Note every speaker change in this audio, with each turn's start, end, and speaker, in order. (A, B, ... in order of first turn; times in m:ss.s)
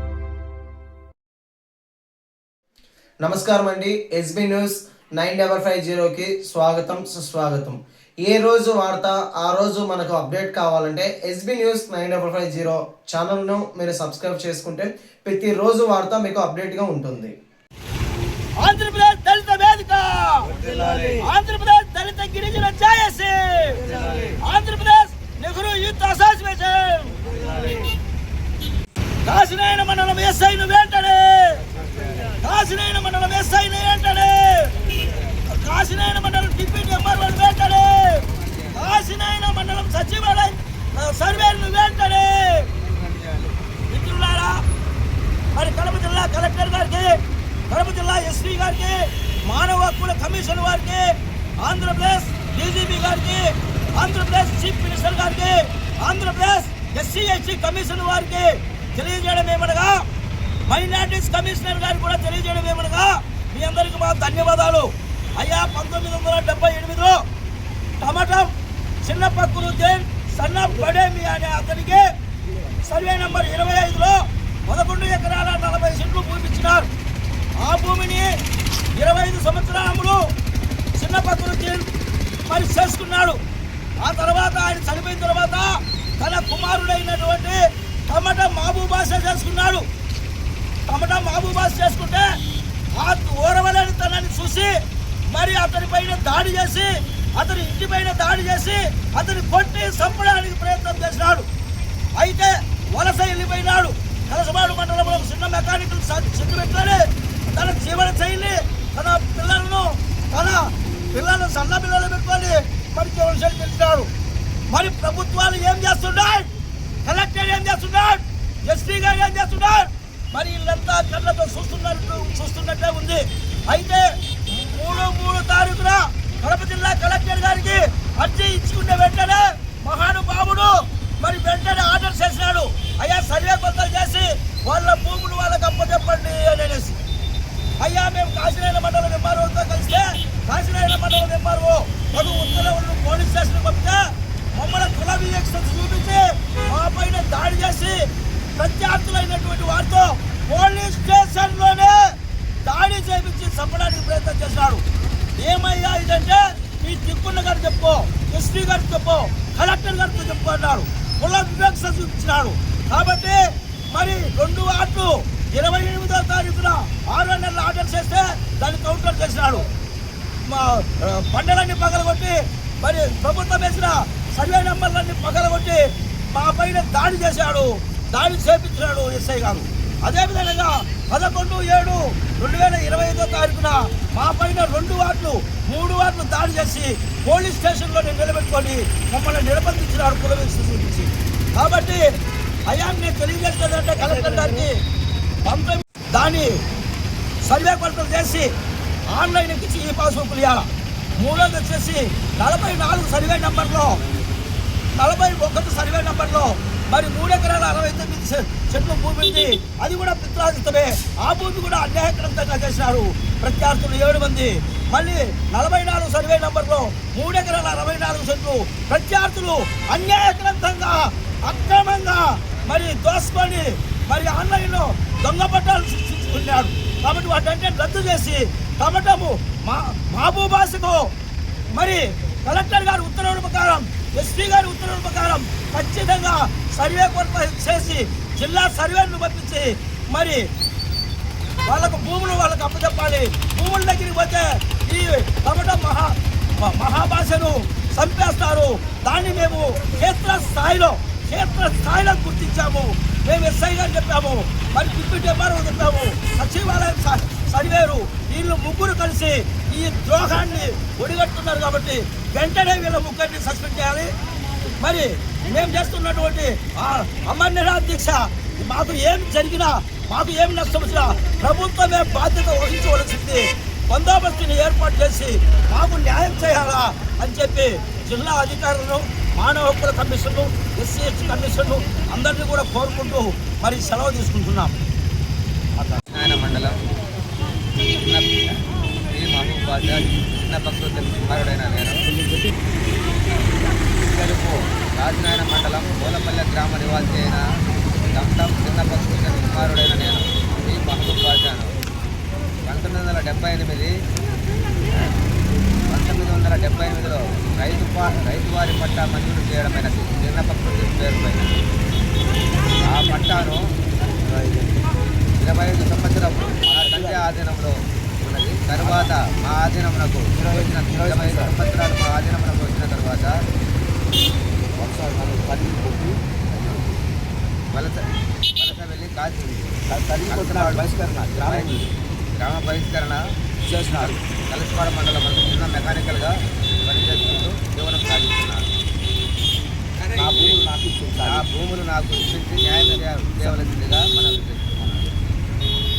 0:03.2-0:17.3 A
0:18.6-0:23.8 B
0:24.4-0:27.4 B
0:29.2-0:31.6 B
0:32.4-0:34.9 B
0:35.5-0:42.7 B
0:43.1-0:43.5 C
0:43.9-0:44.6 B
0:45.6-1:00.1 B
1:00.7-1:07.2 B
1:08.0-1:12.1 B
1:12.8-1:16.9 B
1:17.6-1:18.3 B
1:18.9-1:20.2 B
1:21.0-1:21.9 B
1:22.4-1:23.4 B
1:24.0-1:29.9 B
1:30.9-1:32.4 B
1:33.0-1:34.7 B
1:35.3-1:41.5 B
1:42.2-1:54.1 B
1:54.7-1:56.5 B
1:57.0-2:17.0 B
2:17.8-2:34.8 B
2:35.4-2:49.7 B
2:50.4-3:12.1 B
3:12.7-3:14.8 B
3:15.4-3:16.6 B
3:17.4-3:18.5 B
3:19.1-3:24.0 B
3:24.9-3:51.1 B
3:51.7-4:00.5 B
4:01.6-4:24.1 B
4:24.8-4:44.8 B
4:46.1-4:46.8 D
4:47.9-4:52.1 D
4:54.0-4:57.4 D
4:58.1-5:01.8 D
5:02.6-5:04.0 D
5:05.9-5:11.5 D
5:12.8-5:13.7 D
5:14.1-5:14.7 C
5:15.4-5:23.3 D
5:16.6-5:17.3 C
5:18.8-5:19.1 C
5:20.4-5:21.5 C
5:24.8-5:27.0 C
5:27.7-5:28.0 D
5:28.6-5:30.9 D
5:29.9-5:31.9 C
5:31.4-5:31.8 D
5:32.4-5:33.3 D
5:33.6-5:34.2 C
5:33.9-5:38.7 D
5:40.0-5:41.5 C
5:41.2-5:45.1 D